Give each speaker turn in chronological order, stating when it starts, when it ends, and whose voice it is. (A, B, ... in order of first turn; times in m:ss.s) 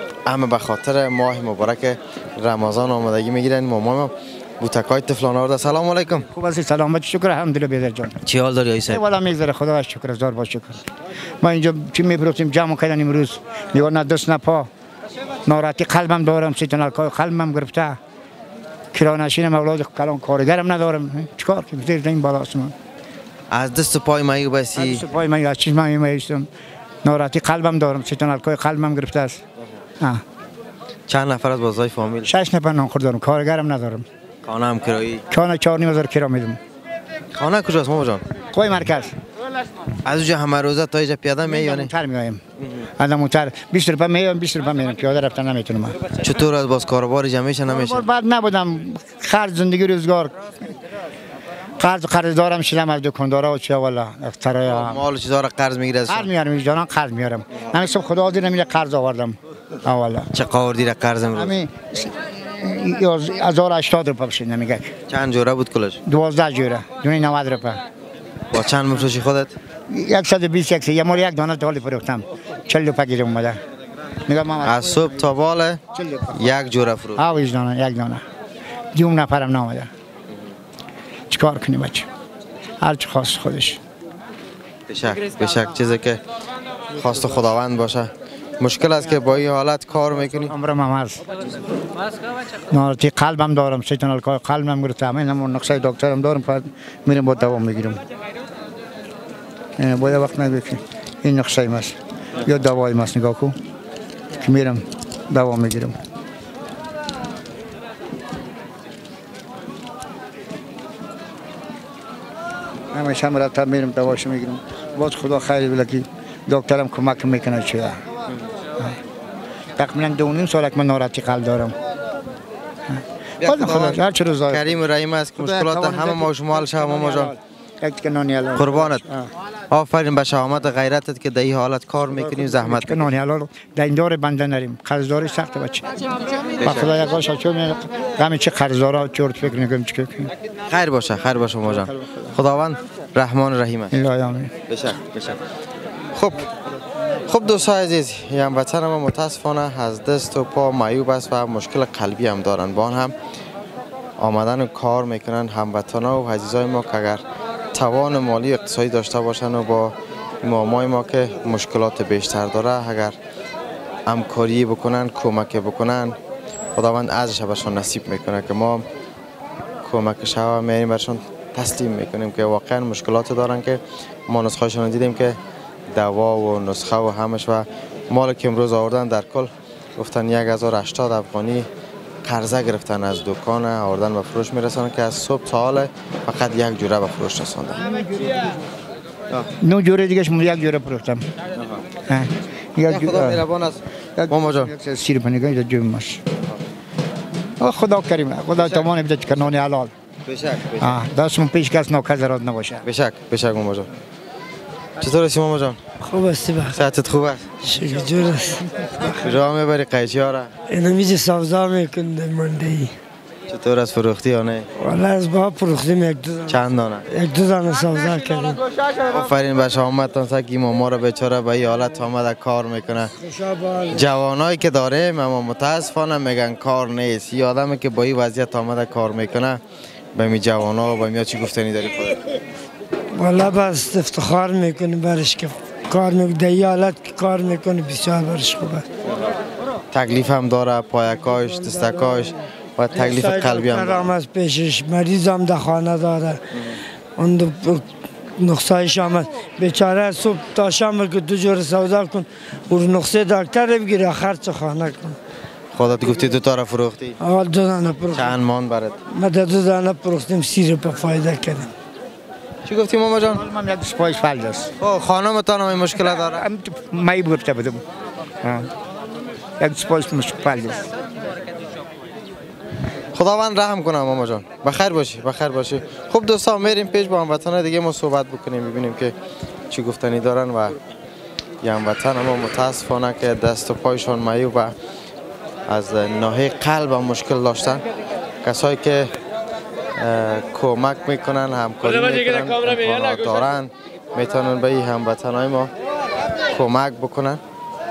0:00.3-0:06.3 A
0:06.3-0:08.2 B
0:08.2-0:09.0 A
0:08.9-0:10.8 B
0:11.4-0:14.7 B
0:15.5-0:18.0 B
0:18.9-0:22.7 B
0:23.5-0:25.0 A
0:24.8-0:26.5 B
0:27.0-0:29.4 B
0:31.1-0:32.3 A
0:32.3-0:34.1 B
0:34.4-0:35.2 A
0:35.3-0:36.6 B
0:37.3-0:38.2 A
0:38.5-0:39.2 B
0:40.0-0:41.9 A
0:41.4-0:42.4 B
0:43.0-0:46.0 B
0:46.2-0:48.0 A
0:47.7-0:50.3 B
0:51.8-0:55.0 B
0:54.7-0:56.3 A
0:56.1-1:00.3 B
1:00.3-1:01.6 A
1:01.3-1:04.9 B
1:05.1-1:06.0 A
1:06.1-1:07.8 B
1:08.5-1:09.6 A
1:09.9-1:13.6 B
1:14.3-1:15.3 B
1:14.6-1:15.8 A
1:15.9-1:16.4 B
1:16.3-1:17.2 A
1:17.2-1:18.2 B
1:18.9-1:19.9 B
1:21.3-1:22.1 B
1:22.8-1:23.8 B
1:24.9-1:26.2 A
1:26.9-1:30.5 A
1:30.4-1:31.2 B
1:32.7-1:38.0 B
1:39.8-1:43.5 B
1:44.4-1:46.0 B
1:52.9-1:58.0 B
1:59.8-2:01.7 B
2:02.9-2:04.8 B
2:03.4-2:04.0 A
2:04.5-2:07.3 A
2:05.4-2:09.3 B
2:08.6-2:09.0 A
2:09.7-2:13.1 A
2:12.1-2:15.9 B
2:16.6-2:20.3 B
2:16.6-2:17.1 A
2:20.7-2:23.9 A
2:21.7-2:22.3 B
2:23.9-2:24.5 B
2:24.7-2:25.4 A
2:26.2-2:26.4 A
2:27.3-2:33.1 A
2:34.2-2:43.2 A
2:44.1-2:46.2 A
2:46.8-2:48.8 A
2:49.8-2:55.4 A
2:55.9-3:01.7 A
3:02.2-3:08.0 A
3:09.6-3:11.2 B
3:12.1-3:13.4 B
3:12.9-3:14.7 A
3:14.2-3:16.2 B
3:17.6-3:19.9 B
3:18.6-3:18.9 A
3:20.3-3:21.0 A
3:20.8-3:22.8 B
3:22.8-3:23.9 A
3:25.0-3:25.8 A
3:26.0-3:26.8 C
3:26.7-3:27.5 A
3:27.6-3:28.6 C
3:29.2-3:30.5 A
3:30.7-3:32.9 C
3:33.5-3:34.7 A
3:34.8-3:38.6 C
3:36.5-3:37.0 A
3:39.0-3:43.1 A
3:43.2-3:43.8 C
3:43.9-3:49.6 A
3:50.2-3:52.2 A
3:53.2-3:58.8 C
3:59.9-4:04.1 A
4:01.8-4:02.2 C
4:02.9-4:06.4 C
4:07.2-4:07.8 C
4:08.4-4:15.2 C
4:15.8-4:17.2 A
4:17.2-4:18.4 C
4:18.1-4:19.0 A
4:19.1-4:21.7 C
4:22.7-4:23.4 A
4:23.3-4:24.7 B
4:24.8-4:26.4 A
4:26.4-4:27.8 B
4:28.4-4:28.7 B
4:29.6-4:30.9 B
4:33.2-4:39.1 A
4:39.7-4:40.8 A
4:41.6-4:44.7 A
4:45.7-4:47.8 A
4:48.4-4:49.1 A
4:50.0-4:55.7 A
4:56.5-4:57.4 A